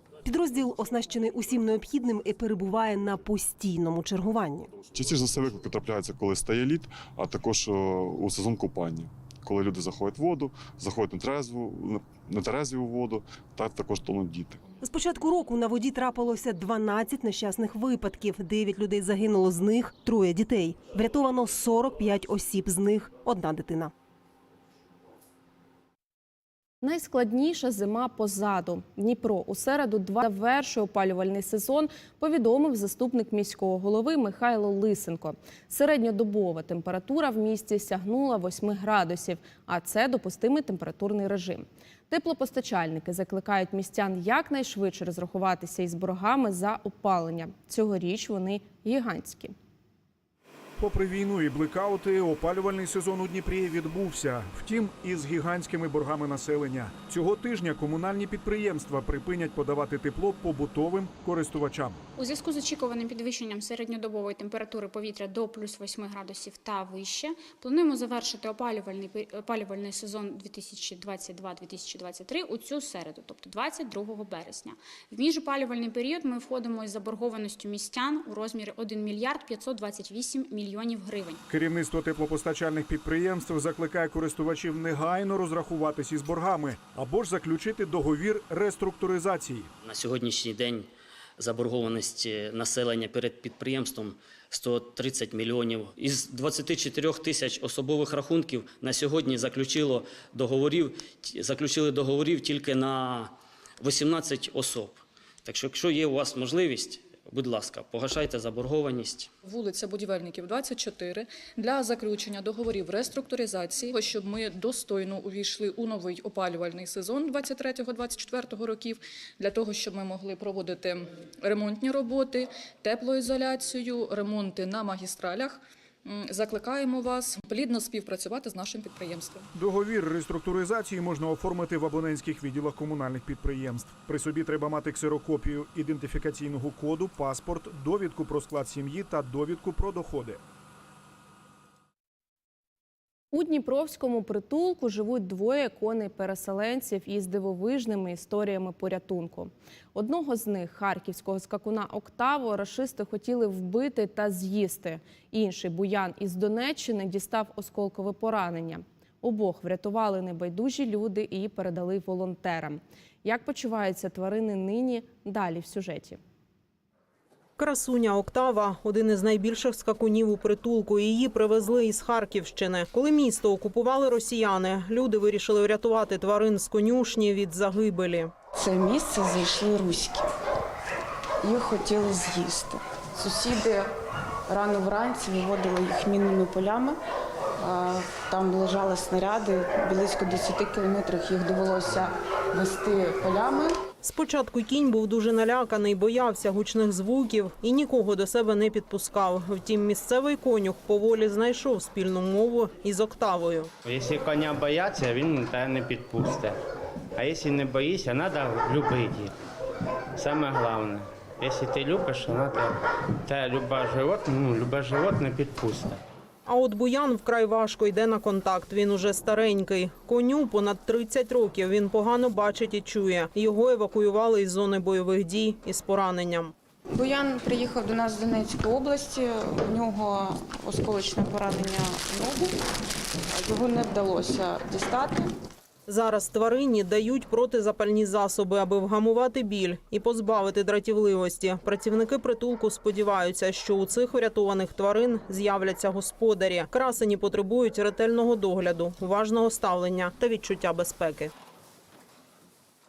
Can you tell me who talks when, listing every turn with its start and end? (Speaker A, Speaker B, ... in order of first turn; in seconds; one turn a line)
Speaker A: 1.3-4.6
Speaker B: 4.9-14.7
Speaker A: 14.9-16.1
Speaker A: 19.8-21.9
Speaker A: 22.5-23.9
Speaker C: 26.8-49.5
Speaker D: 50.8-62.0
Speaker E: 62.2-81.4
Speaker D: 81.5-89.7
Speaker F: 89.8-109.3
Speaker G: 109.4-129.5
Speaker D: 129.6-140.4
Speaker C: 143.3-166.2
Speaker H: 167.6-178.3
Speaker I: 178.6-180.3
Speaker I: 181.4-183.9
Speaker I: 184.5-187.0
Speaker I: 187.6-193.7
Speaker H: 194.1-203.7
Speaker J: 203.9-206.5
Speaker J: 207.2-209.3
Speaker J: 210.2-212.7
Speaker J: 213.2-216.0
Speaker H: 216.5-226.5
Speaker I: 226.9-232.5
Speaker I: 233.3-235.3
Speaker H: 235.9-251.3